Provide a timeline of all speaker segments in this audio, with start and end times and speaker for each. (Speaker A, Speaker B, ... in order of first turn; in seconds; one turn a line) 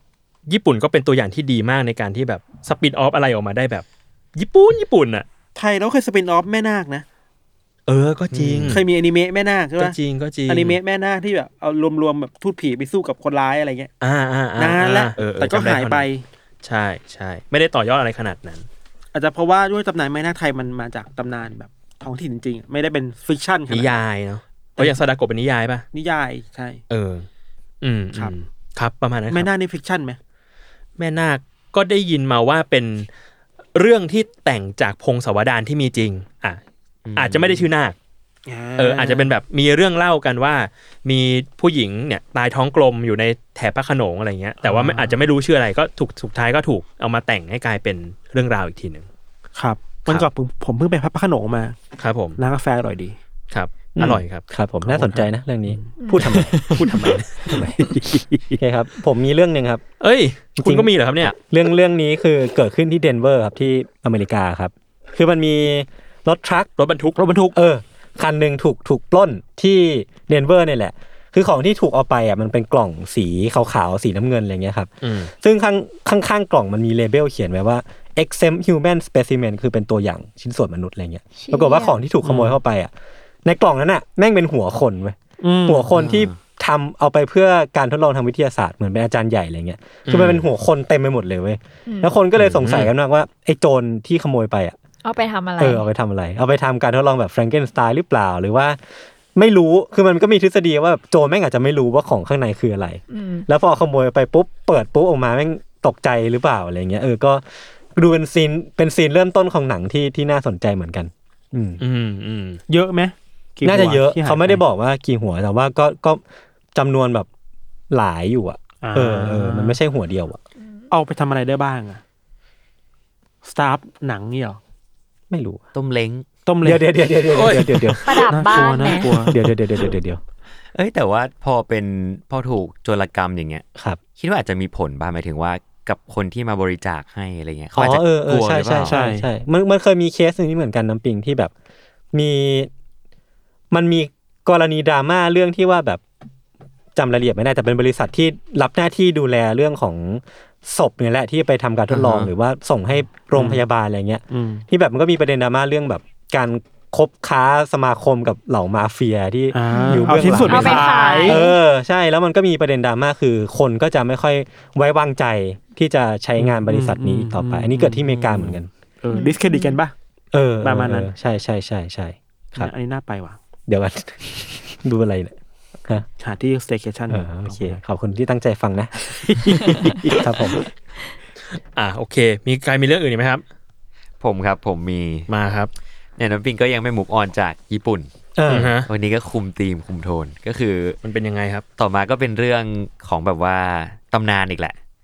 Speaker A: 0.5-5.2
Speaker B: 5.5-7.0
Speaker A: 7.9-8.8
Speaker B: 8.3-9.9
Speaker A: 9.8-10.8
Speaker B: 10.5-13.9
Speaker A: 14.0-16.1
Speaker B: 14.6-16.2
Speaker A: 16.6-18.7
Speaker B: 19.1-24.0
Speaker A: 23.7-25.8
Speaker B: 24.8-25.0
Speaker B: 25.9-26.8
Speaker A: 26.9-27.3
Speaker A: 27.8-29.5
Speaker B: 29.3-30.2
Speaker A: 31.0-33.1
Speaker A: 33.7-36.6
Speaker C: 37.0-37.6
Speaker A: 37.1-38.0
Speaker B: 38.5-39.3
Speaker A: 38.8-49.1
Speaker B: 44.6-45.1
Speaker B: 49.5-51.8
Speaker A: 52.0-52.4
Speaker B: 52.4-53.2
Speaker A: 53.5-54.4
Speaker D: 54.0-56.7
Speaker B: 54.9-55.9
Speaker E: 56.0-56.3
Speaker B: 56.6-58.6
Speaker A: 56.7-57.5
Speaker D: 57.5-57.8
Speaker D: 58.6-59.8
Speaker A: 60.0-61.3
Speaker D: 60.6-66.7
Speaker A: 66.8-67.2
Speaker B: 67.2-67.5
Speaker D: 67.5-82.9
Speaker A: 75.0-75.3
Speaker E: 81.4-82.0
Speaker B: 82.2-82.5
Speaker D: 83.4-94.8
Speaker B: 85.4-85.9
Speaker C: 86.0-86.3
Speaker A: 90.0-90.5
Speaker E: 91.8-92.1
Speaker A: 92.4-92.9
Speaker E: 95.0-95.8
Speaker D: 95.6-98.8
Speaker D: 99.3-107.4
Speaker E: 103.1-103.5
Speaker D: 107.9-111.8
Speaker A: 111.8-112.6
Speaker B: 112.7-114.6
Speaker D: 113.6-116.2
Speaker D: 116.7-117.3
Speaker D: 117.9-120.4
Speaker B: 118.8-119.8
Speaker B: 120.9-122.0
Speaker B: 123.4-124.6
Speaker D: 125.3-125.6
Speaker C: 125.7-126.2
Speaker B: 126.5-126.8
Speaker D: 126.6-130.2
Speaker A: 127.3-128.2
Speaker E: 128.1-129.1
Speaker B: 128.3-129.5
Speaker C: 130.7-133.6
Speaker C: 134.2-138.9
Speaker D: 137.8-141.5
Speaker B: 138.9-139.2
Speaker D: 142.1-142.7
Speaker D: 143.7-146.0
Speaker D: 146.9-168.7
Speaker B: 153.3-153.6
Speaker B: 154.3-154.6
Speaker B: 159.5-161.4
Speaker E: 159.7-161.5
Speaker B: 166.4-169.9
Speaker E: 169.1-169.8
Speaker D: 170.3-172.7
Speaker B: 170.6-171.1
Speaker B: 172.5-173.4
Speaker D: 173.7-175.3
Speaker B: 176.2-177.8
Speaker D: 177.1-178.9
Speaker B: 179.1-180.5
Speaker D: 180.2-180.6
Speaker A: 181.5-183.4
Speaker C: 184.2-185.3
Speaker A: 185.3-185.7
Speaker C: 186.2-191.0
Speaker D: 188.4-188.7
Speaker A: 188.5-188.9
Speaker A: 191.0-191.6
Speaker C: 191.8-194.7